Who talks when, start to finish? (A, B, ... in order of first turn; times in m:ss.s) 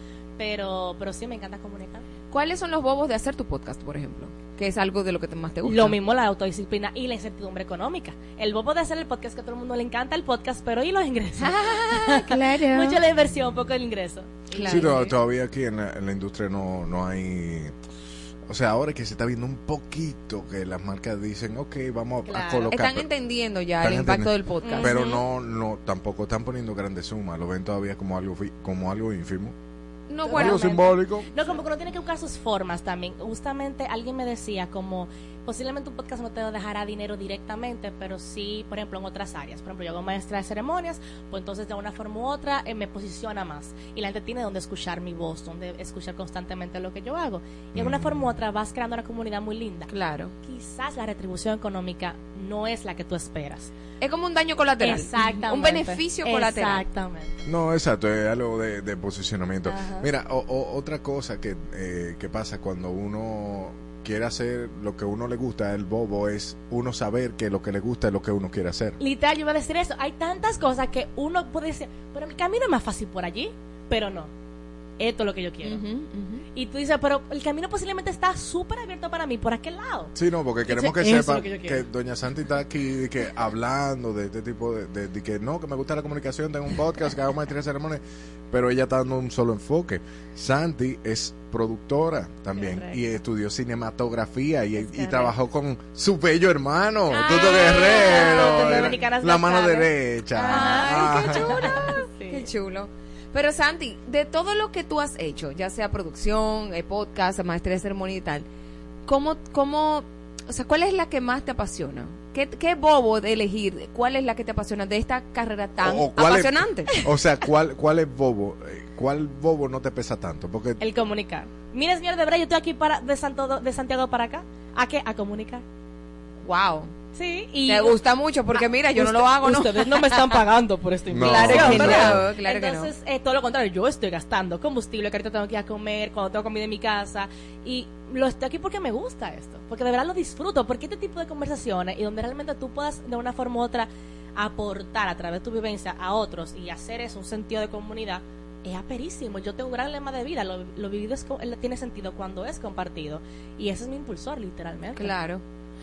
0:00.4-0:02.0 A
0:02.3-0:06.0 B
0:05.6-0:15.1 A
0:11.4-0:13.0 B
0:14.5-0:15.0 B
0:14.6-0:17.8 C
0:18.4-0:23.1 C
0:22.2-0:22.7 A
0:22.7-0:25.0 B
0:23.8-0:29.5 C
0:24.6-0:25.2 A
0:30.1-0:31.0 B
0:30.3-0:49.9 A
0:30.3-0:31.3 C
0:47.7-0:48.2 C
0:49.9-0:50.3 B
0:50.4-0:53.7 A
0:54.0-0:56.8 B
0:54.8-0:57.3 A
0:57.4-1:09.0 C
0:59.7-1:00.0 A
1:09.0-1:14.3 A
1:15.0-1:15.8 A
1:15.6-1:16.4 B
1:16.5-1:20.1 A
1:20.1-1:41.8 C
1:20.7-1:21.8 A
1:32.5-1:33.0 A
1:34.7-1:35.3 A
1:37.1-1:38.9 B
1:37.1-1:42.5 A
1:40.4-1:48.4 B
1:49.0-1:56.9 B
1:55.8-2:00.8 C
2:00.8-2:05.6 A
2:06.4-2:06.9 B
2:07.1-2:08.0 A
2:07.6-2:10.4 B
2:08.5-2:35.1 A
2:11.1-2:12.2 C
2:11.2-2:12.9 B
2:35.0-2:35.4 B